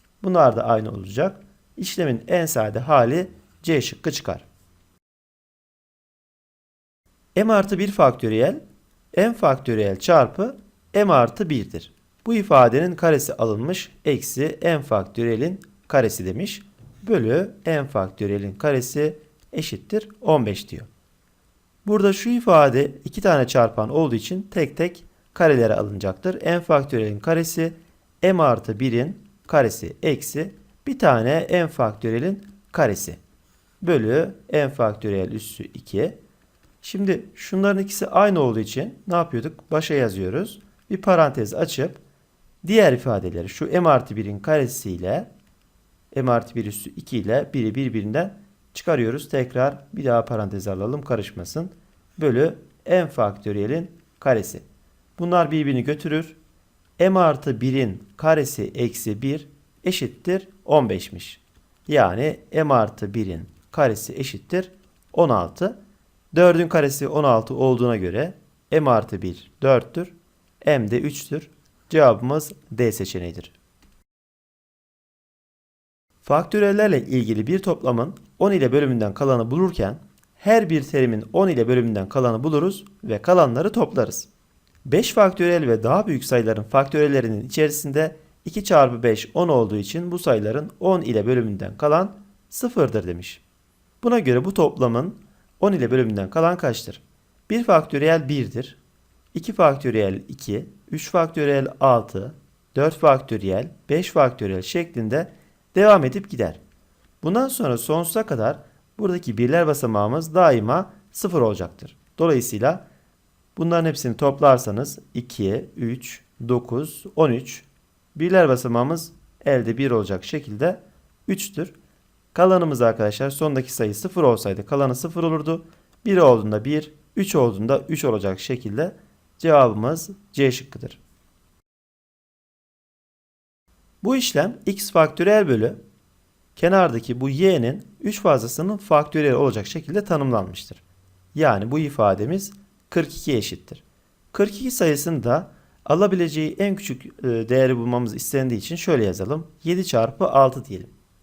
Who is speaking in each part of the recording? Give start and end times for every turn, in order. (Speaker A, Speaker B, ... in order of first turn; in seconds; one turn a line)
Speaker A: 0.2-4.5
Speaker A: 7.3-8.6
Speaker A: 9.1-20.9
Speaker A: 21.8-33.2
Speaker A: 33.8-36.2
Speaker A: 36.8-42.0
Speaker A: 42.6-45.3
Speaker A: 46.1-54.6
Speaker A: 55.2-56.4
Speaker A: 57.0-65.8
Speaker A: 66.3-73.5
Speaker A: 76.2-84.3
Speaker A: 84.8-93.4
Speaker A: 94.0-98.8
Speaker A: 99.3-106.6
Speaker A: 107.2-112.8
Speaker A: 113.5-121.7
Speaker A: 122.3-131.0
Speaker A: 134.0-135.8
Speaker A: 136.5-140.8
Speaker A: 141.3-150.9